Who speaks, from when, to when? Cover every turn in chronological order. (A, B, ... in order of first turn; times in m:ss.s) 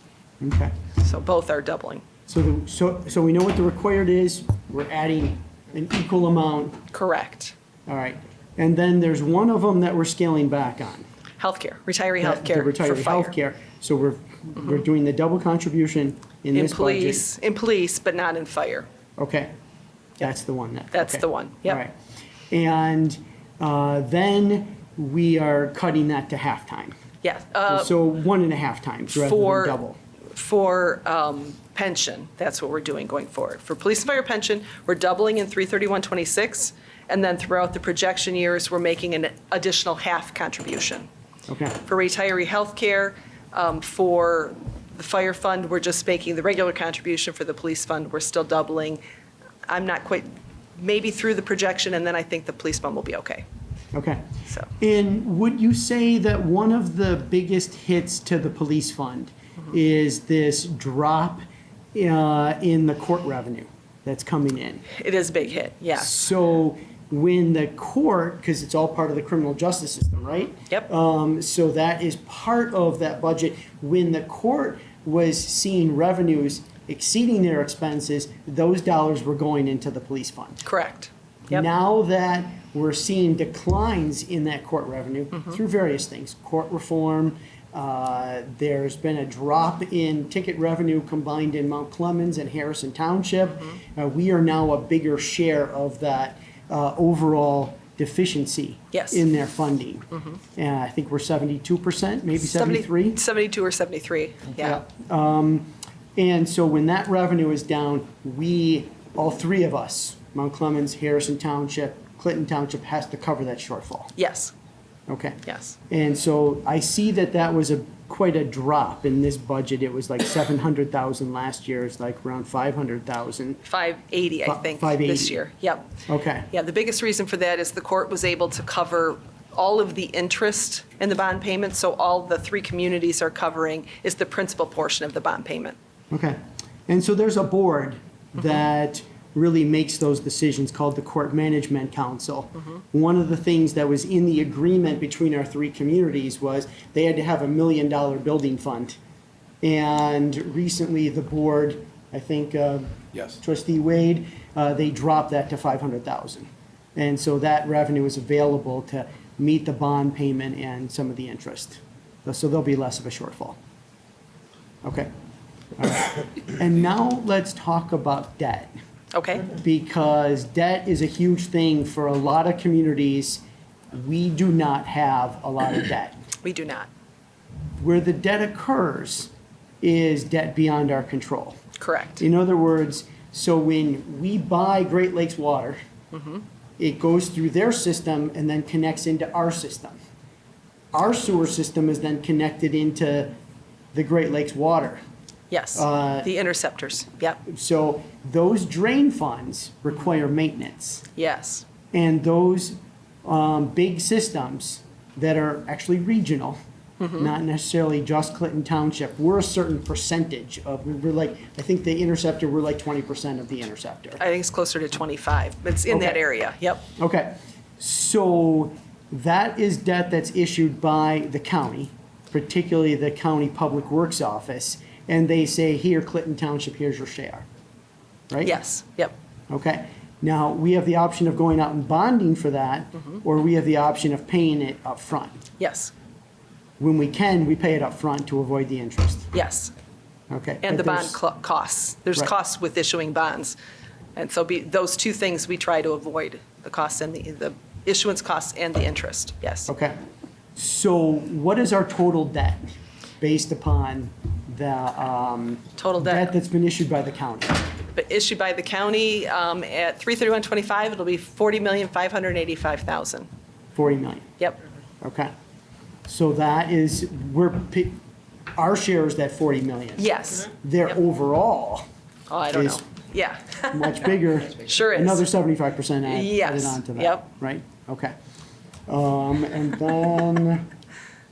0:00.4-0:00.7 A
0:00.9-0:02.0 B
0:02.3-0:06.8 A
0:06.9-0:07.5 B
0:07.9-0:11.0 A
0:11.4-0:13.3 B
0:12.2-0:17.2 A
0:16.5-0:18.9 B
0:19.2-0:19.5 A
0:20.2-0:21.9 A
0:20.9-0:21.8 B
0:22.5-0:26.9 A
0:27.2-0:27.9 B
0:27.7-0:30.0 A
0:29.1-0:29.8 B
0:30.3-0:41.1 B
0:41.5-0:41.8 A
0:41.8-0:49.0 B
0:49.7-0:53.4 B
0:53.9-0:54.3 A
0:54.8-1:01.4 A
1:01.9-1:04.8 A
1:04.9-1:06.2 B
1:06.0-1:20.6 A
1:20.6-1:21.6 B
1:21.5-1:43.2 A
1:38.9-1:39.2 B
1:42.4-1:44.8 B
1:44.6-1:54.1 A
1:54.2-1:54.5 B
1:55.1-2:03.6 A
1:55.4-1:55.8 B
2:03.6-2:05.9 B
2:04.4-2:05.4 A
2:06.1-2:06.5 A
2:06.5-2:15.8 B
2:16.1-2:29.0 A
2:29.6-2:43.6 A
2:44.8-2:45.1 A
2:45.8-2:48.7 A
2:49.1-2:49.5 B
2:49.5-2:56.2 A
2:56.4-2:56.9 B
2:57.8-2:59.3 A
2:59.8-3:01.6 A
3:01.8-3:02.2 B
3:02.2-3:05.8 A
3:06.1-3:06.4 B
3:06.8-3:10.0 A
3:10.9-3:13.3 A
3:13.9-3:15.0 A
3:15.5-3:17.4 B
3:15.8-3:16.3 A
3:17.5-3:21.0 A
3:21.2-3:21.7 B
3:21.9-3:26.6 A
3:27.0-3:27.3 B
3:27.1-3:34.2 A
3:34.2-3:36.9 B
3:35.9-3:36.2 A
3:37.0-3:47.4 A
3:48.3-3:48.5 A
3:48.4-3:49.1 B
3:49.5-3:55.4 A
3:55.6-3:55.9 B
3:56.8-3:59.3 A
3:59.3-3:59.7 B
4:00.3-4:01.2 A
4:00.6-4:03.6 B
4:04.2-4:09.7 B
4:09.7-4:10.0 A
4:10.6-4:12.6 A
4:13.2-4:17.7 A
4:15.8-4:16.3 B
4:17.9-4:23.3 B
4:23.7-4:24.3 A
4:25.0-4:25.3 A
4:26.1-4:28.0 A
4:28.6-4:31.8 A
4:30.0-4:30.5 B
4:32.3-4:35.2 B
4:32.5-4:32.8 A
4:33.7-4:38.1 A
4:36.0-4:37.3 B
4:38.9-4:40.7 A